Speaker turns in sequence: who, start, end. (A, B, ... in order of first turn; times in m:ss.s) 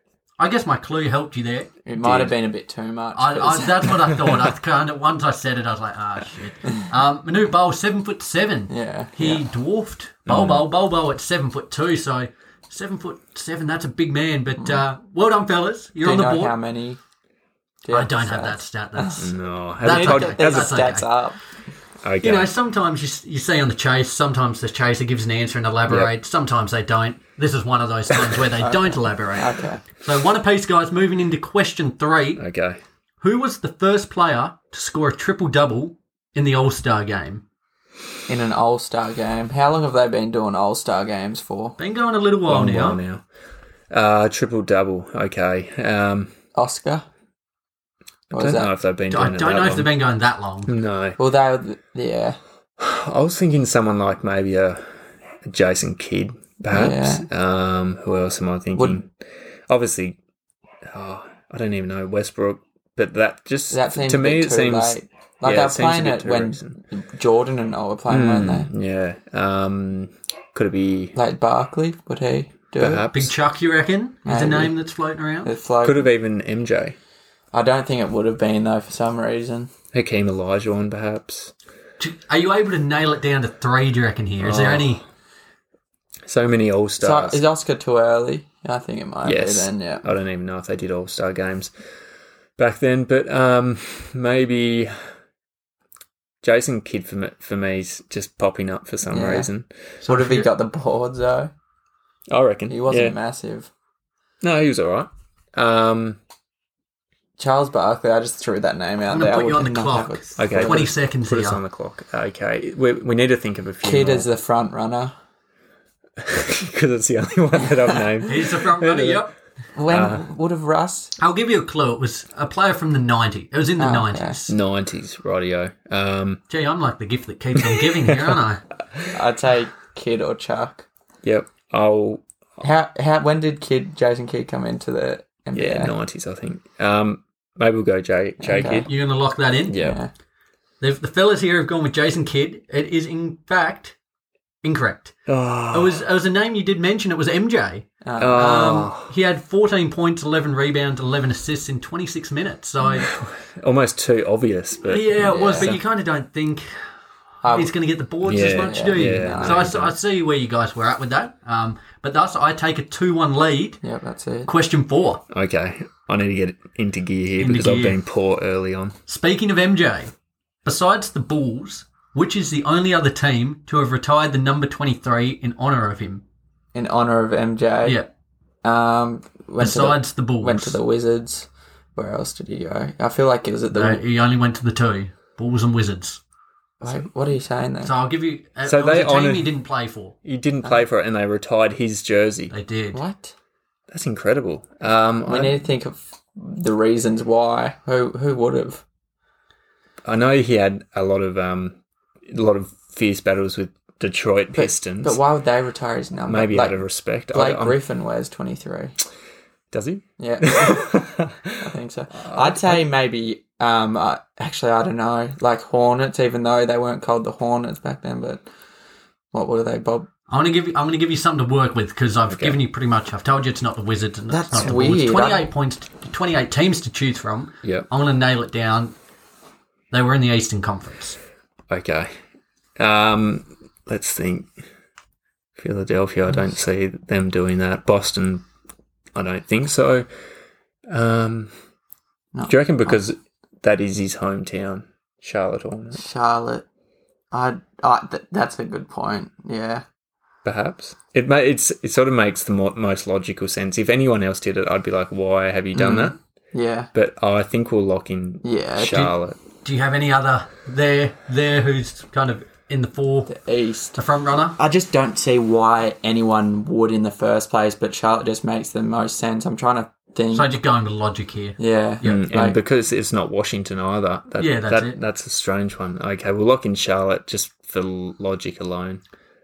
0:00.4-0:01.7 A
0:01.8-0:04.0 B
0:02.0-0:02.3 C
0:03.1-0:16.6 A
0:08.7-0:09.4 B
0:10.3-0:10.7 C
0:16.0-0:17.0 B
0:17.8-0:19.2 B
0:17.9-0:19.3 A
0:19.2-0:20.8 C
0:19.8-0:21.1 A
0:19.8-0:21.4 B
0:22.0-0:22.5 C
0:22.2-0:32.4 A
0:28.6-0:29.8 B
0:32.4-0:32.8 C
0:33.2-0:37.4 A
0:38.3-0:41.8 B
0:41.8-0:43.0 A
0:42.5-0:43.2 C
0:43.9-0:46.3 C
0:46.5-0:47.1 B
0:48.3-0:49.9 C
0:48.3-0:48.7 B
0:49.1-0:50.7 A
0:50.6-0:51.2 C
0:51.2-0:52.4 B
0:52.8-0:54.8 C
0:55.4-0:59.1 C
0:56.7-0:57.3 B
0:59.7-1:00.2 C
1:00.9-1:06.8 C
1:03.7-1:08.7 B
1:08.1-1:11.1 C
1:11.1-1:13.1 B
1:12.8-1:13.3 C
1:13.1-1:15.5 A
1:14.2-1:14.7 B
1:15.4-1:16.1 B
1:15.8-1:17.0 C
1:17.5-1:19.7 B
1:19.9-1:21.5 C
1:22.0-1:25.0 A
1:24.4-1:25.0 C
1:26.3-1:27.4 C
1:27.0-1:30.0 B
1:29.2-1:31.7 C
1:32.6-1:35.0 C
1:36.4-1:39.7 C
1:39.1-1:39.5 B
1:40.0-1:40.5 A
1:40.0-1:41.5 B
1:42.3-1:43.1 C
1:42.7-1:43.7 B
1:44.4-1:46.2 C
1:47.4-1:50.9 B
1:49.1-1:51.6 A
1:50.4-1:54.3 C
1:53.8-1:55.1 B
1:56.2-1:59.2 C
1:58.2-1:59.3 A
1:59.7-2:01.1 B
1:59.9-2:00.2 C
2:01.2-2:04.6 A
2:03.8-2:04.4 B
2:04.5-2:06.4 C
2:06.5-2:08.6 A
2:07.6-2:08.3 C
2:09.1-2:10.9 B
2:11.2-2:12.2 C
2:12.6-2:15.9 B
2:15.5-2:18.9 C
2:18.4-2:18.9 B
2:18.8-2:19.8 A
2:19.7-2:20.0 C
2:19.8-2:20.1 B
2:20.8-2:24.0 A
2:24.6-2:25.1 A
2:25.3-2:26.0 C
2:25.7-2:33.1 A
2:28.0-2:28.7 B
2:28.2-2:29.1 C
2:32.9-2:35.8 C
2:34.8-2:36.7 A
2:35.2-2:35.8 B
2:37.4-2:37.7 B
2:37.5-2:43.8 A
2:38.2-2:40.0 C
2:38.6-2:39.7 B
2:43.8-2:44.5 B
2:44.4-2:45.2 A
2:45.3-2:48.9 C
2:47.4-2:48.0 A
2:49.1-2:50.1 A
2:50.6-2:56.2 A
2:56.7-2:58.0 B
2:58.6-3:04.0 B
2:59.6-3:00.8 A
3:03.7-3:06.2 A
3:06.8-3:07.9 B
3:07.8-3:10.1 A
3:08.6-3:09.5 C
3:10.2-3:12.5 C
3:12.5-3:13.0 A
3:12.9-3:13.3 B
3:13.9-3:15.6 C
3:15.2-3:18.8 B
3:20.0-3:21.8 C
3:22.3-3:25.2 C
3:24.5-3:26.8 B
3:26.2-3:27.8 C
3:27.3-3:29.0 B
3:29.7-3:32.8 C
3:30.2-3:31.0 B
3:31.6-3:38.5 B
3:39.3-3:40.1 B
3:40.3-3:48.9 A
3:42.3-3:42.6 C
3:44.3-3:45.5 B
3:49.9-3:51.2 A
3:51.7-3:52.1 C
3:52.8-3:54.5 C
3:55.6-3:58.4 C
3:59.1-4:00.0 C
4:00.9-4:01.5 C
4:02.3-4:03.0 B
4:02.4-4:06.0 C
4:05.9-4:06.6 B
4:07.3-4:09.8 B
4:10.4-4:16.2 C
4:15.7-4:16.9 B
4:16.9-4:19.4 C
4:18.4-4:19.1 B
4:18.9-4:23.3 A
4:23.2-4:24.0 B
4:24.0-4:24.6 A
4:24.6-4:30.5 B
4:30.3-4:32.2 A
4:31.6-4:32.6 B
4:32.0-4:39.0 C
4:34.4-4:35.0 A